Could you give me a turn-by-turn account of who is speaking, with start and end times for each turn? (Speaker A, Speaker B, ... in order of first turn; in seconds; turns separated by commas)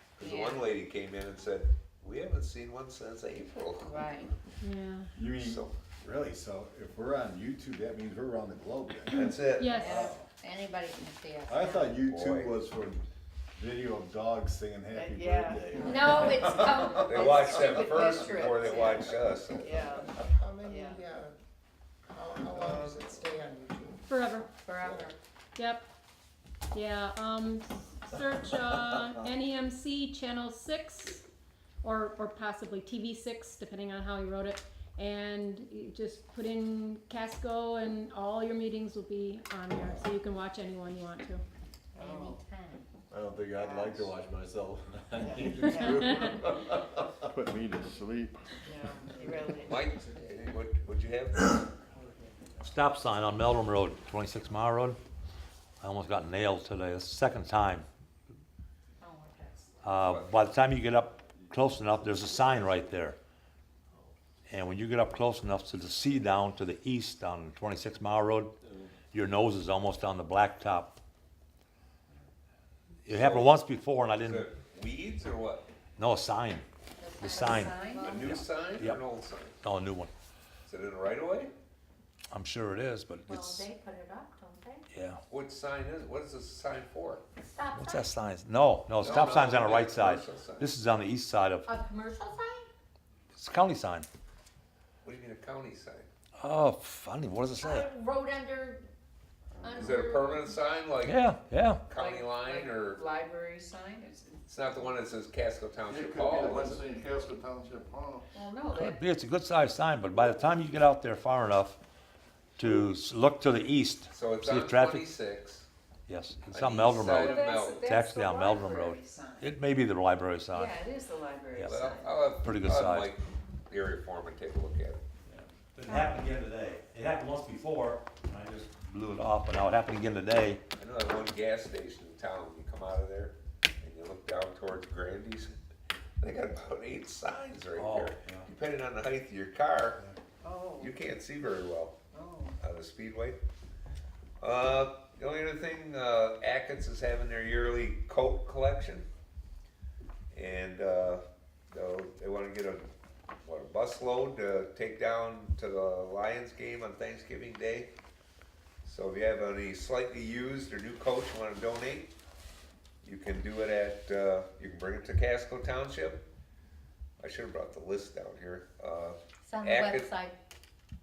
Speaker A: 0.2-4.2, Speaker B: 0.2-0.7, Speaker B: 3.9-4.3, Speaker C: 4.6-5.1, Speaker D: 5.2-10.2, Speaker A: 5.3-5.8, Speaker A: 9.1-10.1, Speaker C: 9.6-10.0, Speaker B: 9.8-11.9, Speaker D: 11.5-17.4, Speaker A: 12.0-12.5, Speaker E: 14.9-15.8, Speaker F: 15.7-16.5, Speaker B: 15.8-17.8, Speaker A: 17.0-19.8, Speaker E: 17.8-21.0, Speaker F: 18.0-18.8, Speaker F: 19.5-21.4, Speaker F: 22.1-24.1, Speaker E: 22.6-22.9, Speaker C: 24.1-24.5, Speaker B: 24.6-25.2, Speaker F: 24.7-25.1, Speaker C: 25.6-25.9, Speaker C: 26.7-31.2, Speaker C: 31.8-41.4, Speaker E: 42.0-42.4, Speaker B: 42.0-42.9, Speaker D: 43.1-47.2, Speaker E: 43.7-44.0, Speaker C: 45.6-46.2, Speaker E: 45.7-46.1, Speaker G: 47.3-49.1, Speaker E: 48.7-49.8, Speaker F: 49.1-50.7, Speaker A: 49.6-51.6, Speaker F: 51.9-52.5, Speaker H: 52.6-55.0, Speaker H: 55.8-57.9, Speaker B: 59.0-59.8, Speaker H: 59.8-63.2, Speaker A: 60.0-60.3, Speaker D: 61.2-62.7, Speaker H: 64.5-68.5, Speaker D: 68.6-68.9, Speaker H: 69.1-71.0, Speaker H: 73.1-74.5, Speaker A: 73.1-73.5, Speaker A: 74.2-75.7, Speaker H: 76.0-76.7, Speaker B: 77.0-78.2, Speaker H: 77.2-79.0, Speaker A: 78.0-79.6, Speaker H: 79.6-80.1, Speaker A: 80.7-81.5, Speaker H: 82.3-83.7, Speaker B: 83.3-84.8, Speaker H: 84.9-85.2, Speaker A: 85.3-87.2, Speaker B: 87.4-88.1, Speaker H: 87.8-91.7, Speaker A: 89.0-90.7, Speaker B: 91.7-92.7, Speaker H: 93.3-94.1, Speaker A: 95.0-96.1, Speaker H: 96.4-97.9, Speaker B: 97.6-98.9, Speaker B: 99.6-100.4, Speaker A: 99.7-101.2, Speaker H: 101.0-101.8, Speaker A: 101.9-103.0, Speaker E: 101.9-104.4, Speaker A: 104.5-106.8, Speaker G: 105.9-108.3, Speaker E: 108.3-108.9, Speaker H: 108.7-111.8, Speaker H: 112.6-115.1, Speaker A: 114.1-115.7, Speaker H: 116.1-120.8, Speaker A: 116.5-117.8, Speaker E: 117.1-119.5, Speaker E: 120.5-122.2, Speaker H: 121.5-121.8, Speaker A: 121.6-125.0, Speaker H: 122.4-123.1, Speaker H: 125.3-130.6, Speaker A: 130.8-135.5, Speaker A: 136.2-140.0, Speaker H: 137.8-138.5, Speaker E: 140.4-140.9, Speaker A: 140.8-142.0, Speaker E: 142.1-142.6, Speaker A: 142.6-143.4, Speaker A: 144.4-149.1, Speaker A: 150.3-152.9, Speaker A: 153.4-157.9, Speaker A: 158.8-162.1, Speaker A: 163.0-166.2, Speaker A: 167.2-170.1, Speaker B: 169.4-170.4